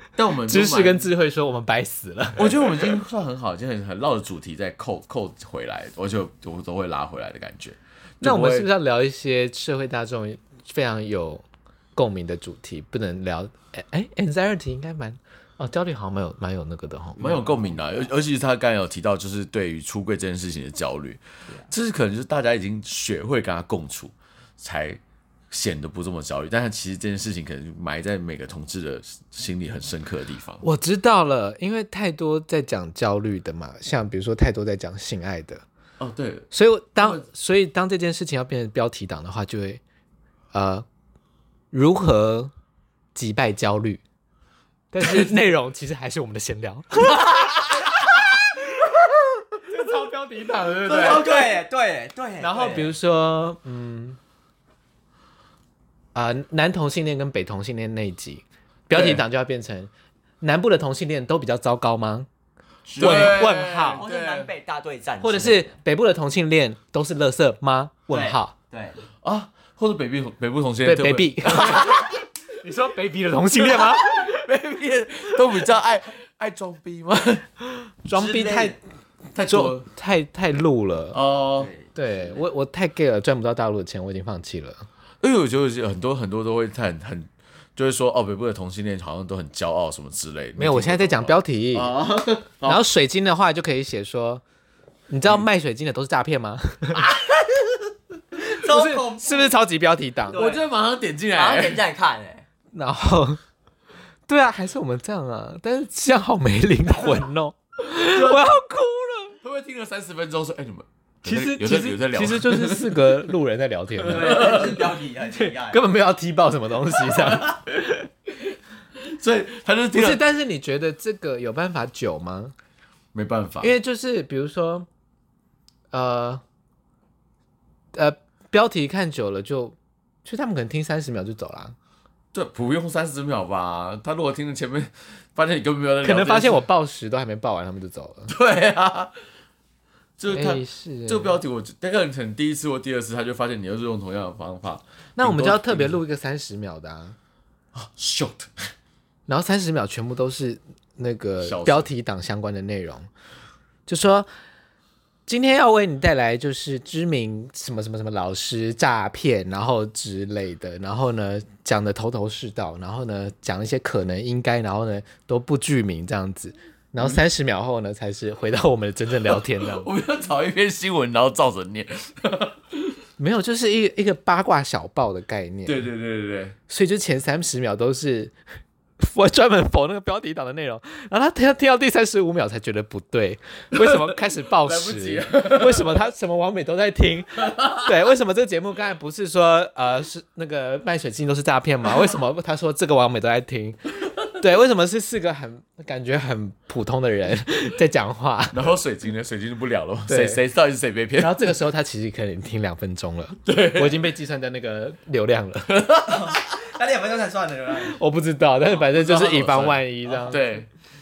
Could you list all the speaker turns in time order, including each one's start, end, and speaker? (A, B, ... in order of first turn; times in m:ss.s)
0:00.2-0:01.1 A
0:00.4-0:03.0 B
0:02.4-0:08.7 A
0:08.2-0:17.3 B
0:17.2-0:30.6 A
0:17.2-0:18.0 C
0:30.6-0:35.6 B
0:36.0-0:37.2 A
0:36.5-0:39.8 B
0:40.5-0:40.9 B
0:41.7-0:42.5 B
0:43.2-0:44.0 B
0:44.9-0:47.6 B
0:45.0-0:45.3 A
0:49.6-0:51.6 B
0:50.9-0:52.9 C
0:52.4-0:54.2 B
0:56.2-1:02.3 B
0:58.9-0:59.2 A
1:02.9-1:05.8 C
1:03.0-1:04.0 B
1:03.0-1:04.5 A
1:05.2-1:08.5 B
1:08.1-1:09.0 C
1:09.2-1:12.2 A
1:10.8-1:14.3 B
1:13.6-1:17.5 A
1:18.0-1:18.8 B
1:18.1-1:18.8 C
1:19.3-1:19.9 A
1:19.5-1:21.2 B
1:21.1-1:21.7 A
1:21.6-1:22.4 C
1:22.0-1:24.9 B
1:25.2-1:32.8 A
1:30.6-1:32.0 B
1:32.6-1:34.4 B
1:35.1-1:37.1 B
1:38.4-1:39.5 C
1:38.5-1:40.4 B
1:40.3-1:40.6 C
1:40.3-1:41.8 A
1:41.3-1:42.4 C
1:42.7-1:43.4 B
1:44.3-1:49.4 B
1:48.0-1:48.5 A
1:49.4-1:53.3 A
1:51.2-1:54.7 B
1:54.0-1:54.9 A
1:54.1-1:55.8 C
1:55.2-1:57.7 B
1:57.0-1:57.6 A
1:59.0-2:00.2 A
1:59.9-2:02.6 B
2:03.1-2:03.7 A
2:03.6-2:04.9 B
2:05.9-2:06.4 B
2:07.9-2:11.8 B
2:12.3-2:16.7 A
2:16.0-2:18.3 B
2:18.3-2:19.1 A
2:20.2-2:26.0 A
2:20.3-2:21.4 B
2:25.2-2:27.2 B
2:27.7-2:28.7 A
2:29.3-2:33.1 B
2:31.4-2:31.9 A
2:33.9-2:34.3 B
2:35.3-2:49.9 B
2:49.3-2:53.0 A
2:53.2-2:55.9 B
2:55.7-2:56.6 A
2:56.7-2:58.4 B
2:59.0-3:18.7 B
3:03.7-3:06.1 A
3:18.5-3:21.6 A
3:20.1-3:20.4 B
3:21.2-3:25.8 B
3:23.4-3:24.1 A
3:25.7-3:26.5 A
3:26.1-3:28.0 C
3:27.9-3:30.4 B
3:28.9-3:30.7 A
3:30.1-3:30.4 C